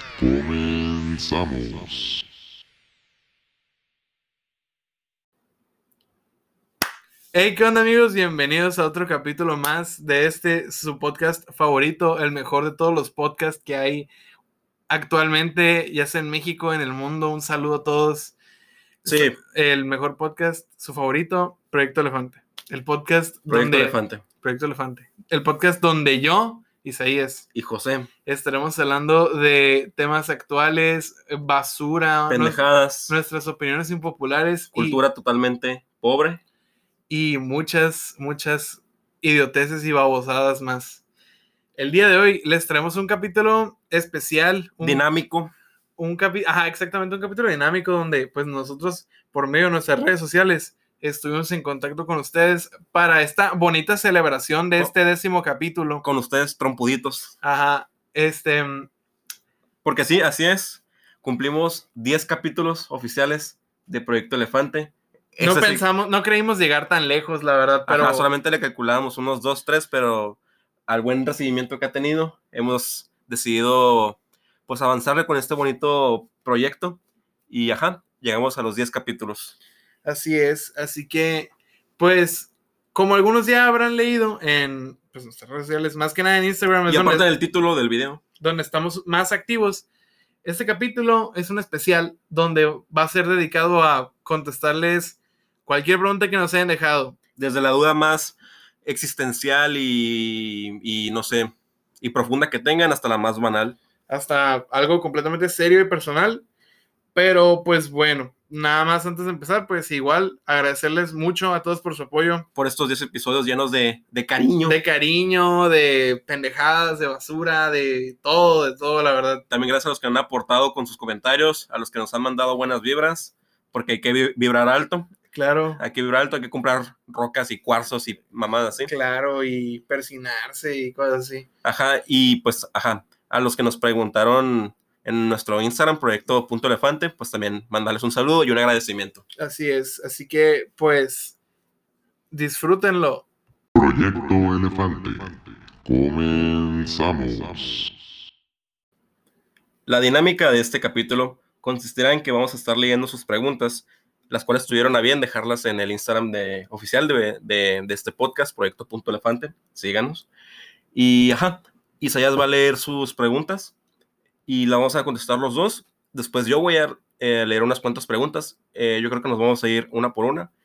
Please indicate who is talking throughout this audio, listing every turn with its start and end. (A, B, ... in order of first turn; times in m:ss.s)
0:00.2-0:02.2 A
0:07.3-0:14.1 B
0:14.9-0:18.3 B
0:19.0-0:19.4 C
0:19.0-0:27.5 B
0:23.5-0:24.2 C
0:27.5-0:28.1 C
0:28.2-0:35.0 B
0:32.3-0:33.1 C
0:34.7-0:36.4 C
0:37.1-0:41.0 B
0:41.8-0:45.0 B
0:44.8-0:45.5 C
0:46.0-0:56.0 B
0:56.0-0:57.3 C
0:57.4-0:58.9 B
0:59.8-1:05.8 C
1:05.4-1:08.3 B
1:07.9-1:19.5 C
1:20.0-1:27.2 B
1:26.9-1:28.2 C
1:28.4-1:29.8 B
1:30.4-1:37.2 B
1:37.4-1:43.8 C
1:44.1-1:46.4 B
1:47.1-1:52.4 B
1:52.6-1:54.8 C
1:54.6-1:59.4 B
1:59.5-2:05.1 C
2:05.3-2:05.8 B
2:05.8-2:08.9 C
2:08.8-2:11.5 B
2:11.6-2:19.2 C
2:19.4-2:21.4 B
2:22.3-2:23.2 B
2:23.7-2:27.9 A
2:29.9-2:40.3 C
2:40.9-2:43.7 C
2:44.5-2:50.5 C